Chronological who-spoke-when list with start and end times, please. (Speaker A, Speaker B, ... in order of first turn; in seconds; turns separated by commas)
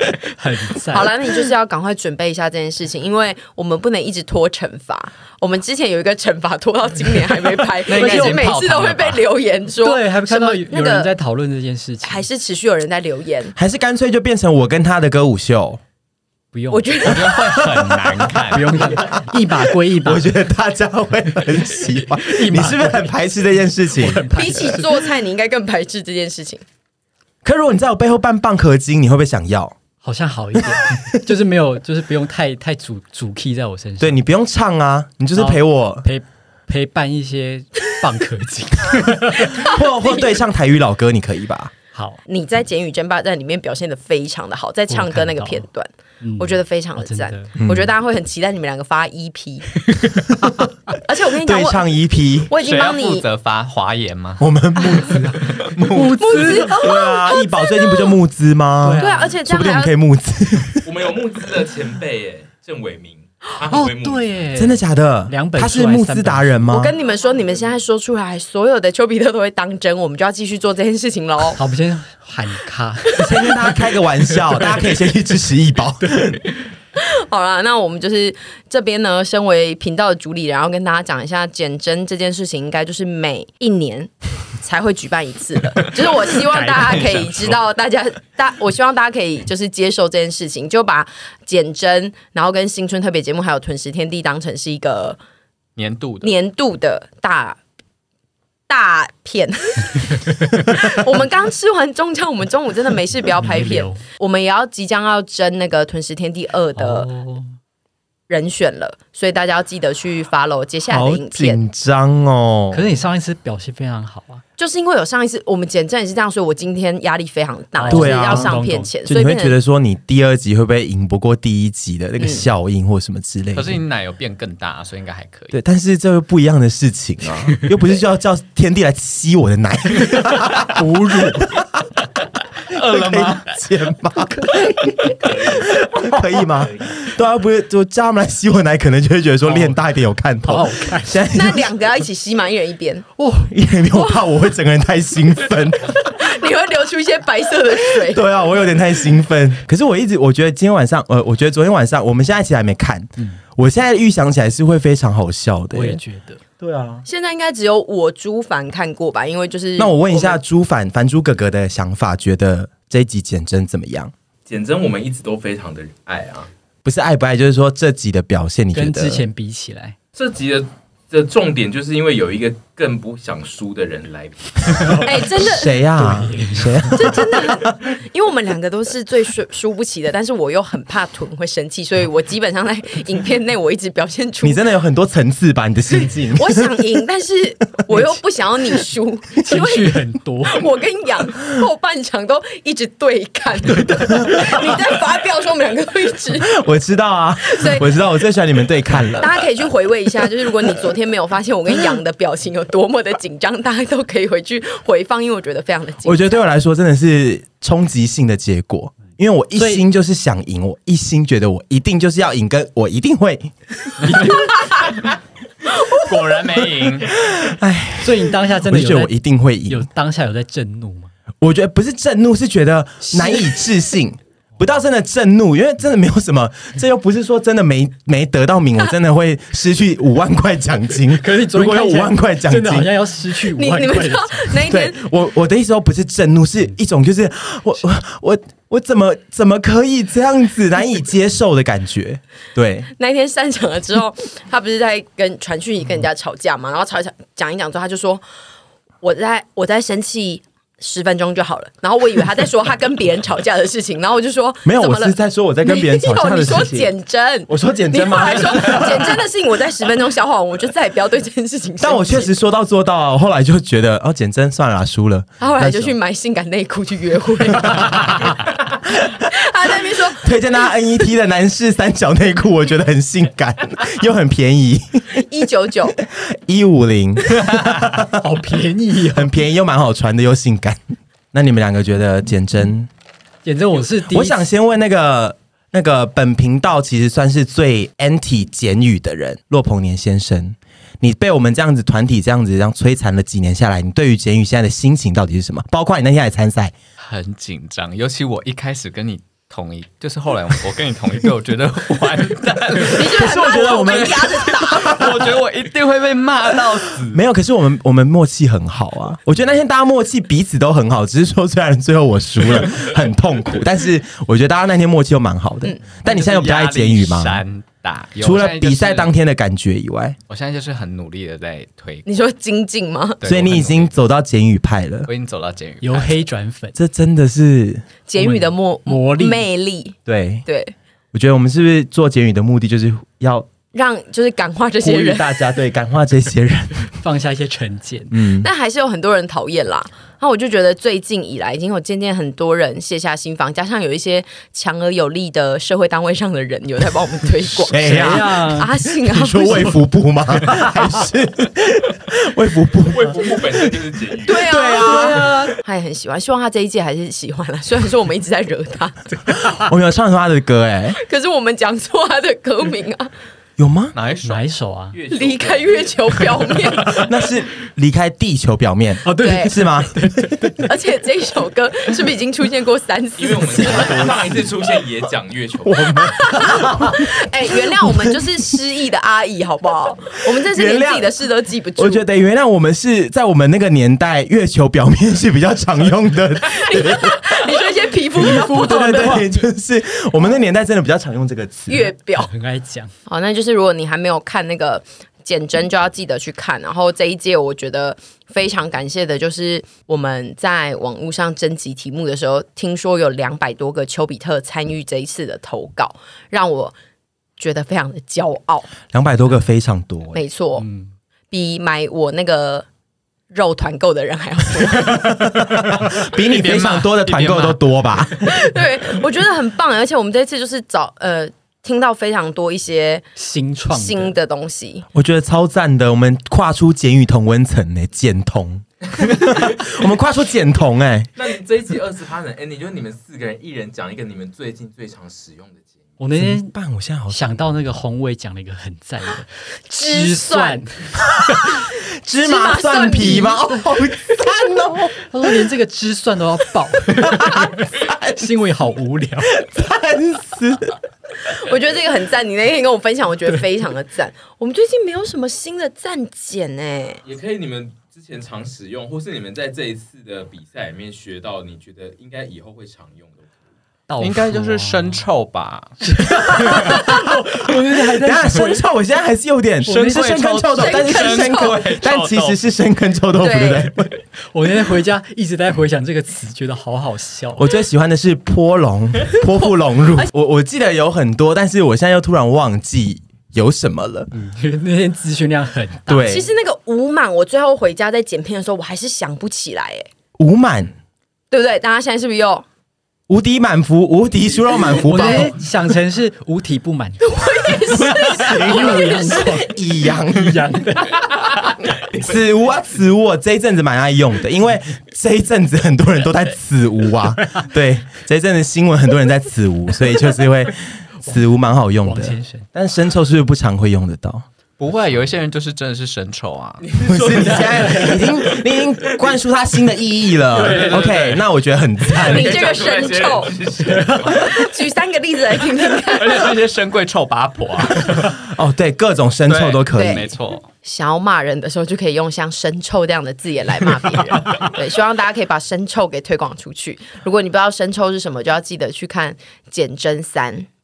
Speaker A: 0.2-1.1, Speaker B: 0.9-11.1, Speaker C: 7.9-9.3, Speaker D: 7.9-8.5, Speaker A: 9.8-12.3, Speaker B: 12.0-13.6, Speaker D: 13.6-15.8, Speaker A: 16.5-17.1, Speaker B: 16.7-17.4, Speaker C: 17.0-18.9, Speaker D: 17.1-24.2, Speaker A: 18.5-20.3, Speaker A: 22.2-23.1, Speaker A: 23.9-25.1, Speaker B: 24.3-26.6, Speaker D: 27.4-29.8, Speaker A: 30.0-34.2, Speaker D: 34.0-36.1, Speaker A: 35.4-39.6, Speaker B: 39.4-40.5, Speaker D: 39.5-41.7, Speaker A: 41.9-42.2, Speaker B: 42.3-49.7, Speaker A: 44.9-45.7, Speaker A: 46.2-47.5, Speaker D: 47.6-47.9, Speaker B: 51.0-51.9, Speaker D: 51.4-52.5, Speaker B: 52.5-53.3, Speaker C: 52.6-54.5, Speaker D: 54.4-60.9, Speaker B: 54.8-55.1, Speaker C: 55.2-55.8, Speaker A: 55.9-57.0, Speaker B: 56.2-58.2, Speaker A: 58.8-59.4, Speaker B: 59.0-60.0, Speaker E: 60.8-64.4, Speaker A: 63.6-66.8, Speaker D: 64.5-66.9, Speaker B: 66.7-71.6, Speaker A: 71.5-73.6, Speaker D: 73.2-76.4, Speaker A: 74.5-75.0, Speaker B: 77.0-95.2, Speaker A: 86.3-87.5, Speaker C: 95.8-96.3, Speaker B: 96.2-97.6, Speaker B: 98.7-107.1, Speaker A: 103.4-104.0, Speaker A: 106.8-107.5, Speaker B: 108.3-111.6, Speaker D: 110.9-112.9, Speaker A: 112.7-114.4, Speaker B: 114.6-119.6, Speaker A: 117.8-118.9, Speaker D: 117.9-123.8, Speaker B: 122.2-122.5, Speaker C: 123.5-125.6, Speaker D: 125.5-131.8, Speaker A: 130.8-131.6, Speaker C: 132.6-133.4, Speaker D: 132.7-141.7, Speaker A: 134.4-134.9, Speaker E: 135.2-136.1, Speaker A: 139.4-139.8, Speaker A: 140.4-141.2, Speaker B: 141.3-143.1, Speaker A: 143.2-143.5, Speaker D: 143.4-146.0, Speaker B: 143.9-144.2, Speaker B: 145.8-148.2, Speaker D: 148.0-156.0, Speaker A: 155.7-156.4, Speaker D: 156.6-157.1, Speaker B: 157.1-160.4, Speaker D: 159.8-164.1, Speaker E: 164.5-166.5, Speaker D: 166.8-169.2, Speaker A: 168.7-170.0, Speaker E: 170.2-175.1, Speaker B: 175.0-175.8, Speaker D: 175.3-177.8, Speaker A: 175.9-177.2, Speaker B: 176.9-184.6, Speaker D: 184.4-186.9, Speaker B: 185.9-196.5, Speaker A: 189.4-190.7, Speaker D: 194.3-194.7, Speaker D: 196.4-199.4, Speaker B: 197.4-198.0, Speaker B: 199.2-206.5, Speaker D: 206.0-213.5, Speaker A: 209.6-209.8, Speaker A: 214.1-214.7, Speaker C: 215.8-217.2, Speaker D: 217.2-219.8, Speaker A: 218.0-219.1, Speaker A: 219.7-221.1, Speaker D: 221.4-232.9, Speaker A: 231.1-234.6, Speaker B: 233.6-235.0, Speaker D: 234.6-242.9, Speaker B: 242.9-248.2, Speaker B: 249.0-262.4, Speaker D: 254.7-256.9, Speaker D: 257.5-259.2, Speaker D: 261.8-266.0, Speaker B: 265.4-268.4, Speaker B: 268.9-270.7, Speaker D: 270.1-275.3, Speaker B: 275.2-276.0, Speaker D: 276.0-278.1, Speaker A: 277.9-279.3, Speaker D: 279.1-280.8, Speaker D: 281.3-282.9, Speaker A: 283.4-284.4, Speaker D: 284.0-296.7, Speaker C: 297.0-307.2, Speaker B: 302.9-305.1, Speaker D: 303.0-305.3, Speaker D: 307.0-317.4, Speaker C: 316.0-319.2, Speaker D: 318.2-320.2, Speaker C: 320.3-322.1, Speaker B: 322.1-323.2, Speaker C: 323.2-323.9, Speaker D: 323.2-325.1, Speaker C: 325.1-326.2, Speaker A: 325.8-326.8, Speaker D: 326.8-327.9, Speaker B: 328.1-330.7, Speaker A: 328.1-329.4, Speaker D: 330.1-330.4, Speaker D: 331.1-333.5, Speaker B: 333.7-335.4, Speaker D: 334.8-336.9, Speaker A: 336.9-338.1, Speaker D: 338.1-338.5, Speaker B: 338.3-349.8, Speaker D: 347.6-355.3, Speaker A: 347.8-348.7, Speaker A: 350.5-350.9, Speaker E: 352.9-354.5, Speaker B: 354.2-359.0, Speaker A: 354.7-355.6, Speaker D: 359.4-361.0, Speaker B: 361.0-363.1, Speaker D: 363.6-363.9, Speaker C: 363.9-364.4, Speaker A: 364.2-365.0, Speaker E: 364.9-366.7, Speaker B: 365.1-367.1, Speaker A: 366.8-367.1, Speaker D: 366.9-370.0, Speaker A: 369.0-370.7, Speaker B: 369.2-369.6, Speaker B: 370.6-374.2, Speaker E: 373.2-375.9, Speaker D: 375.6-377.1, Speaker B: 375.9-382.1, Speaker D: 377.8-378.2, Speaker D: 380.4-381.1, Speaker D: 381.8-387.6, Speaker B: 386.4-389.2, Speaker D: 388.2-391.9, Speaker A: 388.2-389.3, Speaker B: 391.7-392.3, Speaker A: 392.1-392.9, Speaker B: 393.1-406.8, Speaker B: 407.4-408.7, Speaker D: 408.9-410.2, Speaker B: 410.1-410.7, Speaker A: 410.6-410.9, Speaker B: 411.3-412.7, Speaker B: 413.3-415.2, Speaker D: 414.9-418.2, Speaker C: 416.1-417.7, Speaker B: 418.1-423.1, Speaker A: 423.2-424.1, Speaker B: 423.7-424.9, Speaker D: 424.9-431.1, Speaker E: 431.2-436.0, Speaker A: 436.0-436.5, Speaker D: 436.1-437.3, Speaker A: 437.1-441.6, Speaker B: 439.7-440.6, Speaker D: 441.8-445.0, Speaker B: 442.2-443.5, Speaker A: 445.0-449.4, Speaker D: 447.0-448.1, Speaker D: 449.3-450.8, Speaker B: 451.2-457.0, Speaker E: 457.0-463.3, Speaker A: 463.9-465.0, Speaker C: 464.0-465.8, Speaker A: 465.8-468.6, Speaker D: 466.3-474.0, Speaker A: 469.6-470.2, Speaker C: 469.7-472.4, Speaker B: 470.5-471.6, Speaker B: 473.2-473.7, Speaker A: 474.2-477.5, Speaker D: 477.4-484.1, Speaker B: 479.4-480.1, Speaker A: 484.1-486.0, Speaker D: 485.9-486.3, Speaker B: 485.9-489.9, Speaker D: 490.2-490.7, Speaker B: 491.3-492.4, Speaker D: 493.1-495.3, Speaker A: 494.8-501.6, Speaker B: 495.0-495.3, Speaker B: 497.0-499.4, Speaker D: 498.1-500.5, Speaker D: 501.8-514.2, Speaker A: 511.8-512.5, Speaker C: 514.6-516.6, Speaker E: 516.6-519.1, Speaker D: 516.9-522.5, Speaker A: 517.2-517.9, Speaker E: 520.4-521.2, Speaker A: 520.4-520.8, Speaker E: 521.8-524.4, Speaker B: 522.0-526.4, Speaker A: 523.7-524.2, Speaker C: 525.9-528.2, Speaker D: 528.2-530.1, Speaker C: 529.3-530.5, Speaker B: 529.7-540.5